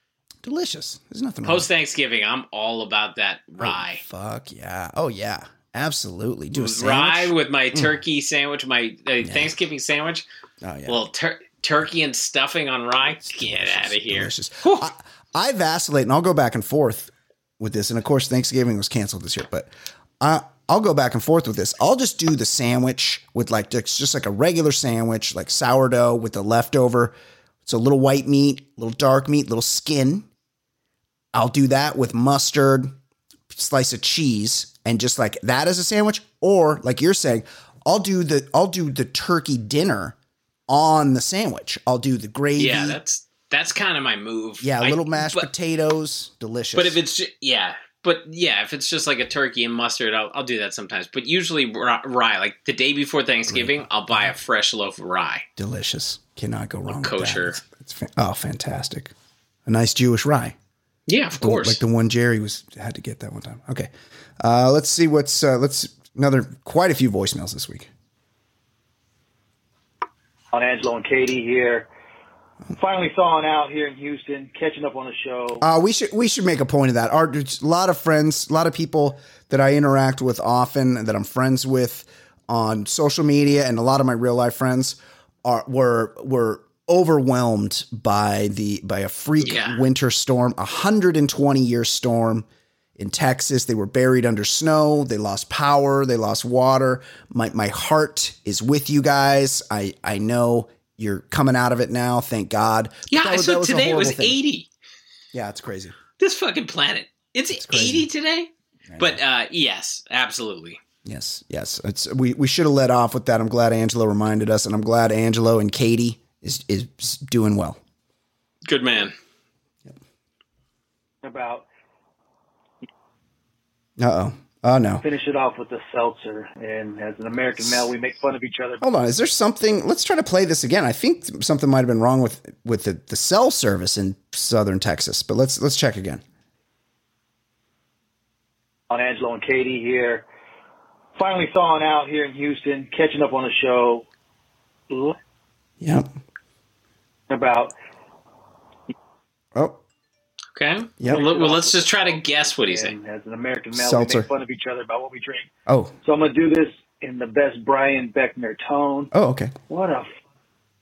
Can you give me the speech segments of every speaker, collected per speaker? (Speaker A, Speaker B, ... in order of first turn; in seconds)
Speaker A: 0.4-1.7, 3.6-8.0, 9.2-9.5, 10.6-11.0, 13.2-30.3, 31.3-32.9, 33.5-40.1, 40.7-43.0, 44.6-47.0, 53.5-54.3, 55.6-59.1, 59.6-60.5, 61.4-67.9, 75.6-104.4, 105.3-106.0, 107.5-108.1, 108.9-109.2, 111.0-117.8, 124.0-125.0, 128.8-136.2, 145.8-146.1, 149.5-149.8, 153.7-154.3, 155.7-155.9, 159.1-159.5
Speaker B: 1.4-4.0, 6.5-10.2, 10.9-14.9, 42.6-45.5, 46.7-55.5, 56.9-57.6, 61.1-61.8, 89.4-89.8, 103.1-104.7, 106.2-110.8, 118.6-119.1, 150.6-152.9
Speaker C: 70.5-71.9, 72.8-75.6, 121.2-121.7, 125.0-128.8, 138.9-140.3, 141.2-144.1, 144.9-145.2, 147.3-147.7, 151.0-155.5, 156.0-159.1, 159.7-160.1